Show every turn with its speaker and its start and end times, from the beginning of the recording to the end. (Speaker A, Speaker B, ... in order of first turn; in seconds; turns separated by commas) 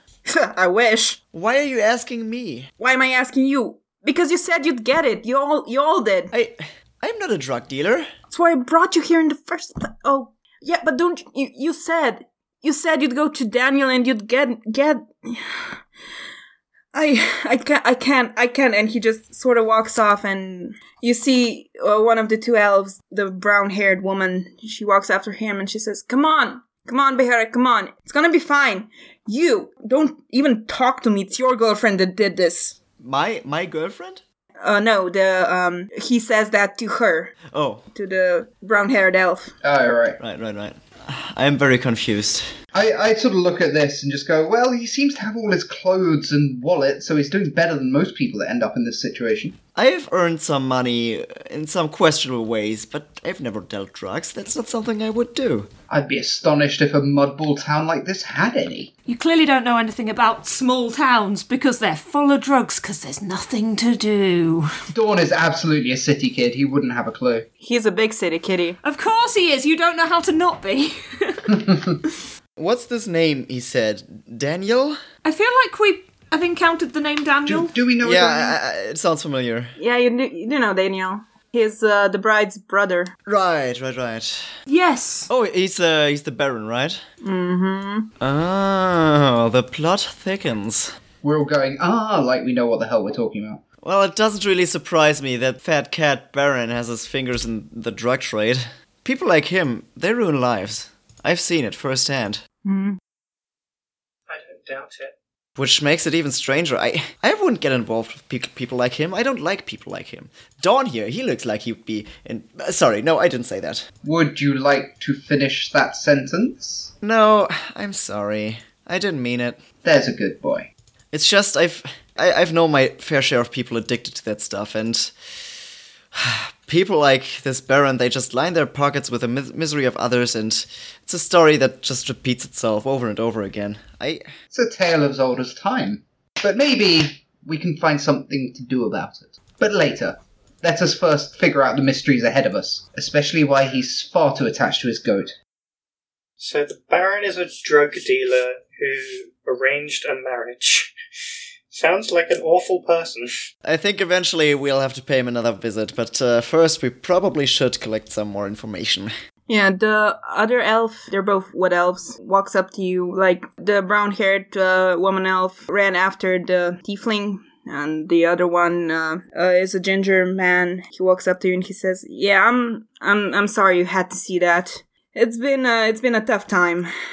Speaker A: 0.3-1.2, Speaker B: 1.3-2.7, Speaker A: 2.8-6.3, Speaker B: 6.3-8.1, Speaker A: 8.3-15.8, Speaker A: 16.9-32.8, Speaker B: 33.0-34.2, Speaker A: 34.6-37.3, Speaker B: 37.5-37.9, Speaker A: 37.9-39.5, Speaker C: 39.6-40.2, Speaker B: 40.2-42.5, Speaker C: 42.7-49.6, Speaker B: 49.7-55.7, Speaker C: 55.9-58.9, Speaker D: 59.1-64.7, Speaker C: 64.9-67.5, Speaker A: 67.6-68.8, Speaker D: 68.8-71.5, Speaker C: 71.5-72.0, Speaker B: 72.5-75.0, Speaker D: 75.2-77.7, Speaker C: 77.5-78.5, Speaker B: 78.0-79.7, Speaker A: 79.8-83.1, Speaker B: 83.2-84.5, Speaker D: 84.7-85.3, Speaker B: 85.3-87.0, Speaker A: 87.2-88.1, Speaker B: 88.2-90.9, Speaker C: 91.2-93.6, Speaker B: 93.8-102.4, Speaker A: 102.6-103.0, Speaker E: 104.3-105.1, Speaker B: 105.5-113.8, Speaker C: 114.0-116.9, Speaker B: 117.0-119.6, Speaker C: 119.8-120.7, Speaker B: 121.1-125.6, Speaker B: 126.1-134.3, Speaker C: 134.5-145.3, Speaker E: 146.4-150.9, Speaker E: 151.7-153.3, Speaker B: 153.6-159.1, Speaker A: 159.5-176.9